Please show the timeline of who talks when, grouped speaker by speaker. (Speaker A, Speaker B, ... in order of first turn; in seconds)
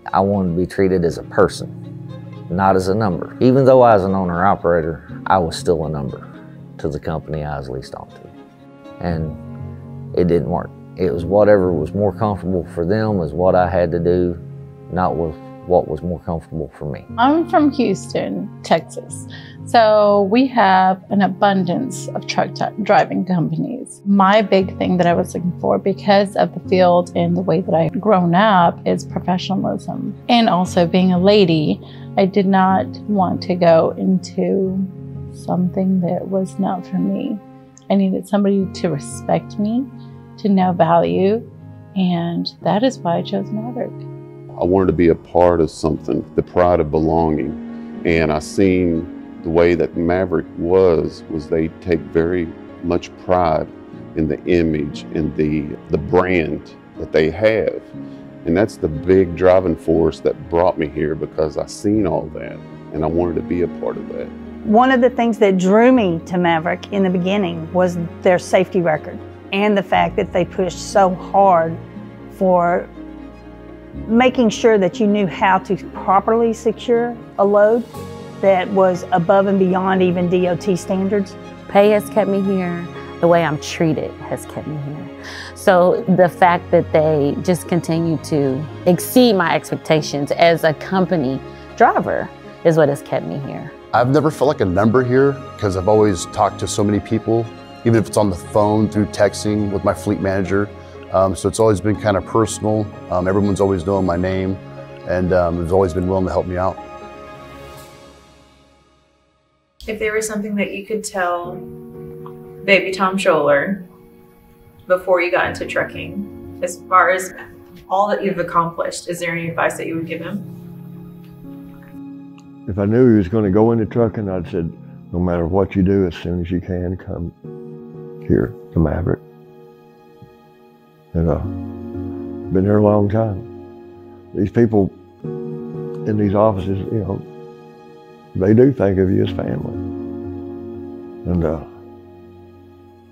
Speaker A: 0.1-1.7, 2.5-8.3, 9.0-9.4, 10.1-17.1
Speaker B: 17.2-44.0
Speaker C: 44.6-57.9, 58.4-64.3
Speaker D: 64.7-71.8, 72.3-72.9, 74.1-77.9, 78.4-81.3
Speaker E: 81.7-93.7
Speaker F: 93.9-106.8
Speaker G: 109.8-111.7, 112.6-113.9, 114.9-120.5
Speaker H: 122.7-127.3, 128.2-129.2, 131.1-131.5, 132.5-133.4, 134.3-134.9, 136.0-137.2, 138.3-139.8, 141.2-141.7